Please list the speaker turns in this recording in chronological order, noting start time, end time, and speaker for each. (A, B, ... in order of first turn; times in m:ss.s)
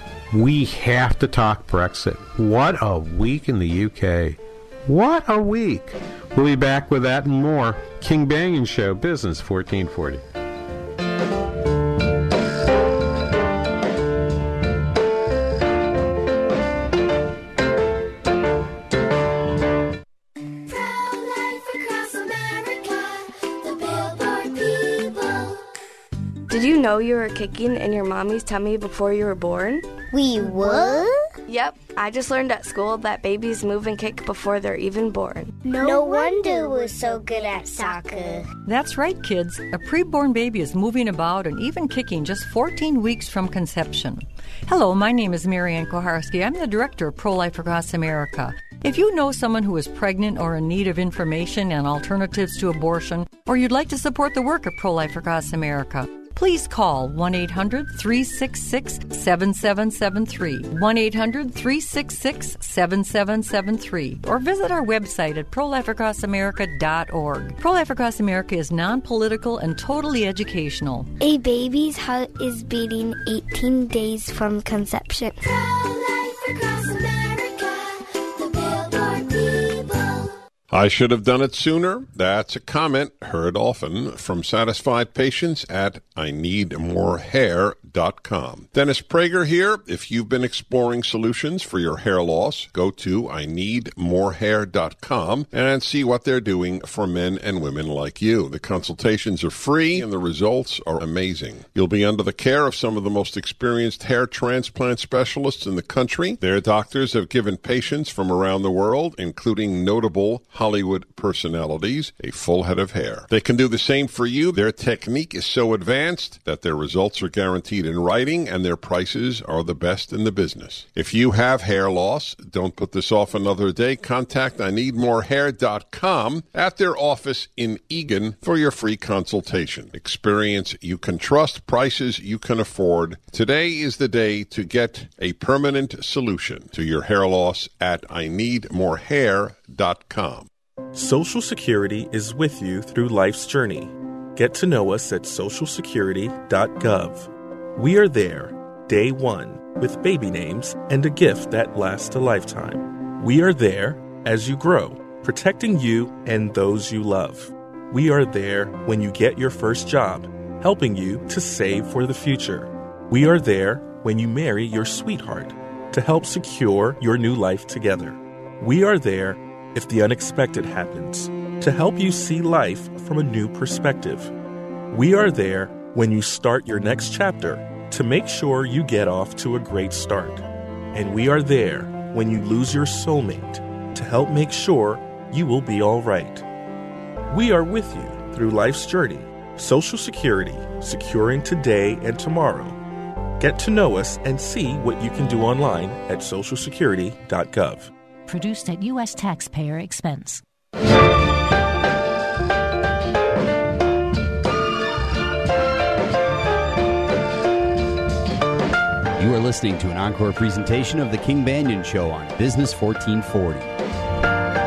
0:00.3-0:10.2 A
0:20.7-0:25.5 B
0:26.5-0:29.9 B
0:30.2-0:30.7 C
0:31.5-0:35.6 B
0:35.7-0:38.2 C
0:38.7-1:11.1 D
1:11.2-1:15.4 C
1:15.7-1:20.2 B
1:20.7-2:20.5 E
2:20.9-2:54.3 F
2:54.9-3:06.4 F
3:07.3-3:12.8 F
3:13.4-3:17.9 F
3:18.3-3:20.4 G
3:29.2-3:33.7 H